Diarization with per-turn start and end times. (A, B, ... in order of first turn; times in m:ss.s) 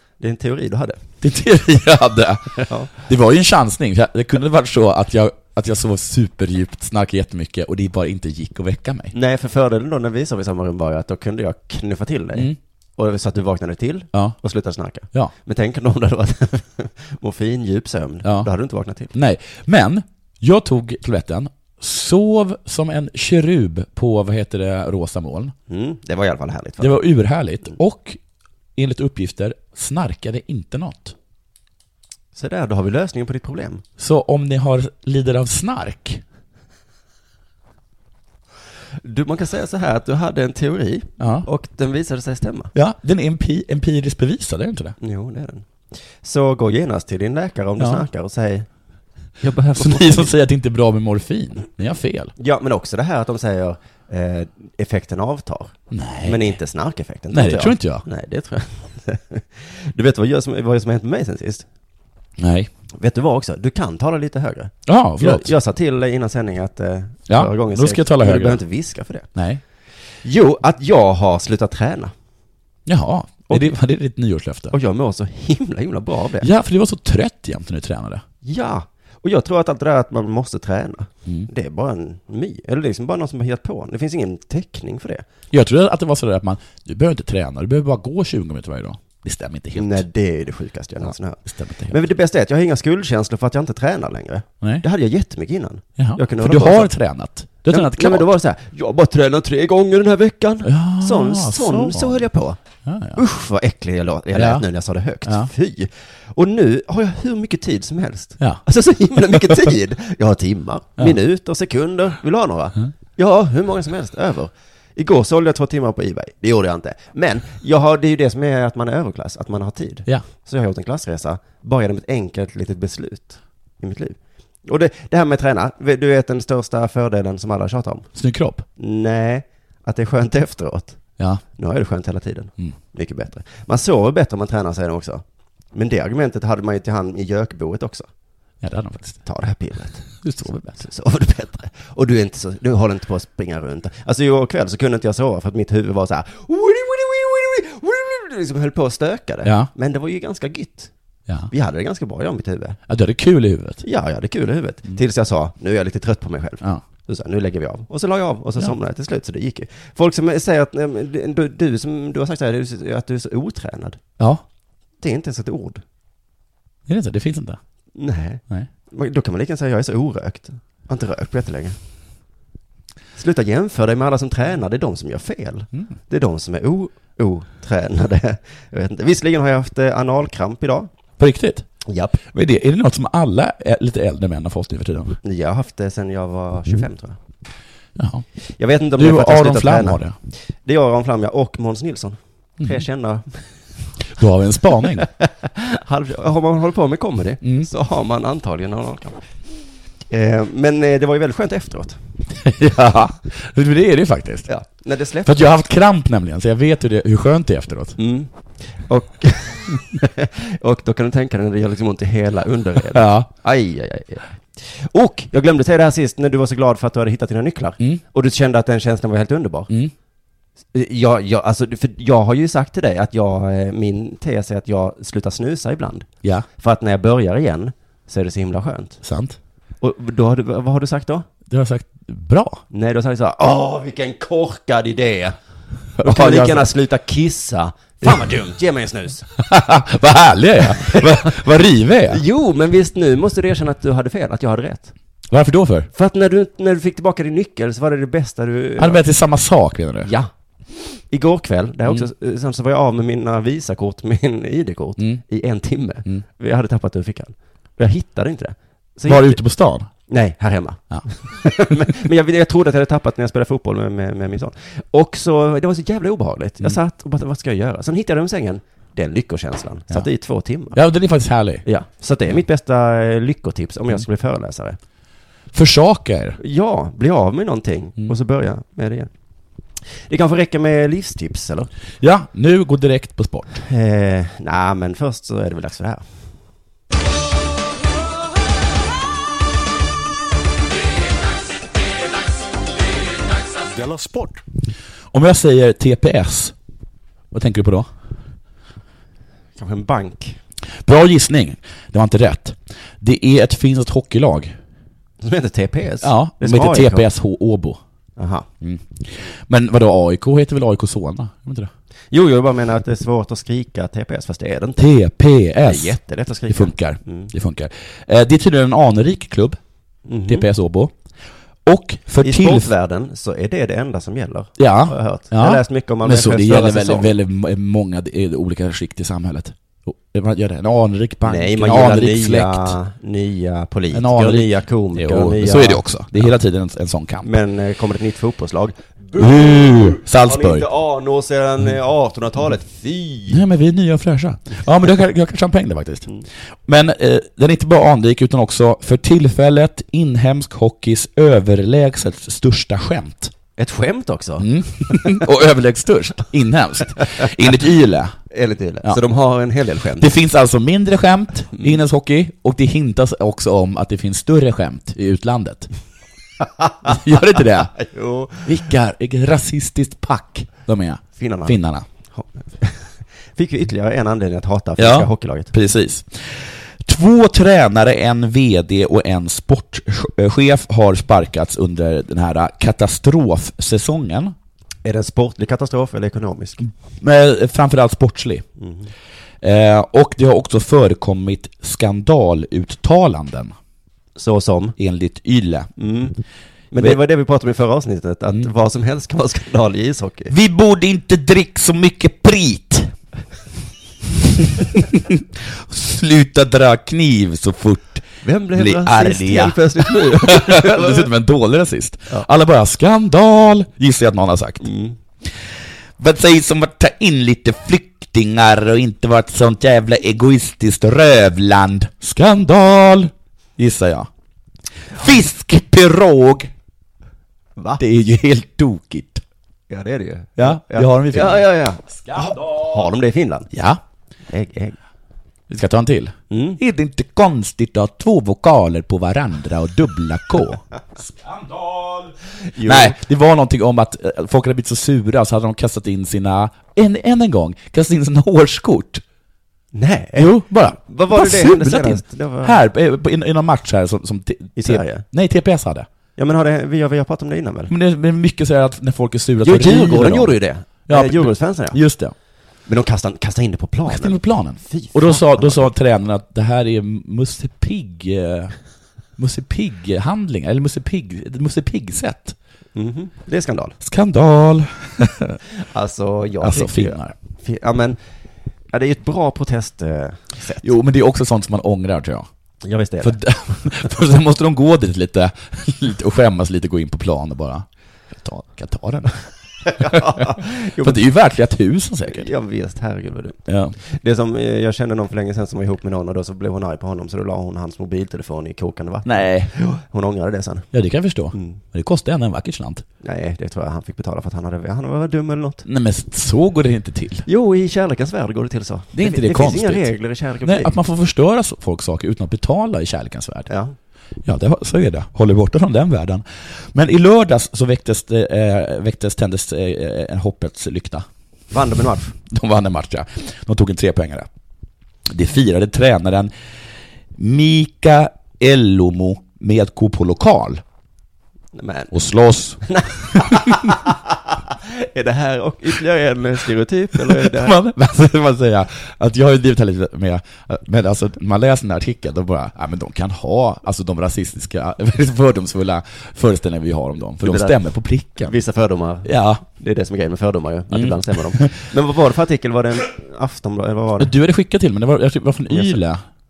0:00.2-0:01.0 A
0:01.2-0:09.1 B
0:02.5-0:02.9 A
0:09.1-0:19.1 A
0:18.2-0:18.5 B
0:19.1-0:25.5 B
0:25.7-0:27.0 A
0:26.8-0:28.2 B
0:28.8-0:31.1 B
0:32.3-0:33.8 A
0:34.0-0:36.2 B
0:39.0-0:42.7 A
0:41.2-0:41.5 B
0:42.7-0:45.0 B
0:45.0-0:45.7 A
0:46.2-0:48.7 A
0:47.8-0:48.0 B
0:49.4-0:50.3 A
0:49.8-0:52.3 B
0:52.4-1:01.6 A
0:55.9-0:56.6 B
0:57.3-0:58.0 B
1:02.4-1:02.7 B
1:03.0-1:09.3 A
1:04.8-1:05.5 B
1:07.3-1:08.6 B
1:09.3-1:09.6 B
1:10.2-1:12.1 A
1:12.8-1:14.7 B
1:14.7-1:16.5 A
1:16.4-1:18.2 B
1:18.4-1:25.2 A
1:25.5-1:30.0 B
1:29.7-1:31.4 A
1:31.0-1:32.0 B
1:31.9-1:36.9 A
1:36.0-1:38.3 B
1:37.7-1:42.6 A
1:40.6-1:42.2 B
1:42.8-1:43.2 B
1:43.1-2:08.1 A
1:44.3-1:44.6 B
1:45.2-1:45.5 B
1:49.2-1:49.7 B
2:08.1-2:08.6 B
2:08.8-2:11.0 A
2:11.2-2:11.4 B
2:11.6-2:18.1 A
2:18.6-2:19.2 B
2:19.2-2:20.1 A
2:20.2-2:20.8 B
2:20.8-2:30.9 A
2:29.4-2:29.7 B
2:31.5-2:32.8 A
2:32.9-2:33.8 B
2:33.8-2:44.0 A
2:45.0-2:45.8 A
2:46.9-2:47.6 B
2:47.9-2:51.8 A
2:53.2-3:00.9 A
3:01.2-3:01.7 B
3:01.8-3:02.2 A
3:02.3-3:05.2 B
3:05.2-3:07.2 A
3:08.0-3:08.2 B
3:08.6-3:10.0 A
3:09.0-3:10.1 B
3:10.6-3:13.4 A
3:12.6-3:12.8 B
3:14.1-3:15.1 B
3:15.2-3:19.2 A
3:17.4-3:17.7 B
3:20.1-3:22.0 A
3:22.3-3:24.5 B
3:24.5-3:25.4 A
3:25.2-3:28.0 B
3:28.0-3:39.7 A
3:32.9-3:33.3 B
3:40.7-3:49.0 A
3:49.0-3:49.4 B
3:49.8-3:51.2 A
3:51.5-3:52.6 B
3:52.7-3:55.4 A
3:56.0-3:56.7 B
3:56.0-3:59.3 A
3:59.4-4:02.2 B
4:00.8-4:01.4 A
4:02.1-4:04.9 A
4:05.3-4:05.9 B
4:05.9-4:09.0 A
4:08.8-4:10.1 B
4:10.0-4:10.3 A
4:11.1-4:19.4 A
4:15.0-4:15.2 B
4:19.0-4:19.9 B
4:20.1-4:30.8 A
4:30.7-4:31.6 B
4:31.6-4:34.8 A
4:35.5-4:36.4 B
4:36.4-4:39.1 A
4:40.1-4:41.7 A
4:42.0-4:43.6 B
4:43.6-4:46.2 A
4:55.1-4:56.5 B
4:57.3-4:57.9 B
4:59.6-5:00.4 A
5:00.8-5:04.6 B
5:05.2-5:07.1 A
5:06.0-5:07.8 B
5:08.2-5:08.4 A
5:08.6-5:11.7 B
5:12.1-5:14.8 A
5:14.8-5:16.0 B
5:15.6-5:17.3 A
5:16.5-5:19.6 B
5:20.1-5:20.4 A
5:20.3-5:20.9 B
5:21.6-5:22.7 B
5:22.2-5:27.1 A
5:24.6-5:32.8 B
5:31.2-5:36.3 A
5:33.9-5:37.3 B
5:37.2-5:43.4 A
5:39.2-5:40.7 B
5:43.3-5:46.1 B
5:46.7-5:53.3 B
5:53.6-5:55.2 A
5:54.4-5:58.2 B
5:58.3-6:00.1 A
6:00.0-6:05.7 B
6:06.7-6:06.9 A
6:06.8-6:07.7 B
6:07.7-6:08.5 A
6:08.4-6:11.8 B
6:11.2-6:11.6 A
6:12.1-6:15.5 A
6:14.8-6:24.3 B
6:24.8-6:26.6 A
6:26.6-6:28.4 B
6:28.6-6:28.9 A
6:29.4-6:33.5 B
6:34.2-6:34.7 A
6:34.8-6:35.7 B
6:35.8-6:36.2 A
6:36.7-6:40.3 A
6:40.3-6:42.9 B
6:44.6-6:54.6 B
6:48.2-6:51.1 A
6:54.6-6:55.0 A
6:56.0-7:04.1 B
7:04.9-7:06.5 B
7:07.8-7:09.2 B
7:09.7-7:13.5 A
7:10.4-7:12.7 B
7:13.5-7:13.8 B
7:14.3-7:14.8 A
7:15.5-7:22.1 B
7:16.3-7:16.6 A
7:22.5-7:23.0 A
7:22.6-7:29.0 B
7:29.7-7:32.6 A
7:30.2-7:35.9 B
7:34.6-7:35.0 A
7:36.2-7:37.7 A
7:37.7-7:40.3 B
7:39.4-7:41.8 A
7:40.9-7:42.1 B
7:42.7-7:45.7 A
7:43.9-7:48.5 B
7:49.2-7:52.4 B
7:52.7-7:53.8 A
7:53.8-7:55.4 B
7:55.6-7:58.0 A
7:56.4-7:57.1 B
7:58.7-8:00.7 A
8:00.6-8:02.3 B
8:02.6-8:03.2 A
8:03.0-8:09.1 B
8:09.6-8:11.0 A
8:09.8-8:12.3 B
8:12.0-8:20.7 A
8:13.5-8:13.8 B
8:19.0-8:19.5 B
8:20.7-8:22.8 B
8:21.3-8:21.6 A
8:23.0-8:25.6 A
8:25.6-8:27.2 B
8:27.3-8:30.7 A
8:28.9-8:29.9 B
8:30.4-8:33.5 B
8:33.5-8:33.7 A
8:34.2-8:41.0 B
8:41.5-8:42.1 A
8:42.3-8:44.3 B
8:45.0-8:46.3 B
8:47.2-8:50.6 B
8:51.5-8:51.9 A
8:51.9-8:53.7 B
8:52.6-8:57.5 A
8:57.0-9:08.3 B
9:07.2-9:07.6 A
9:08.2-9:14.1 A
9:09.0-9:09.4 B
9:10.7-9:11.6 B
9:14.0-9:16.0 B
9:15.5-9:15.8 A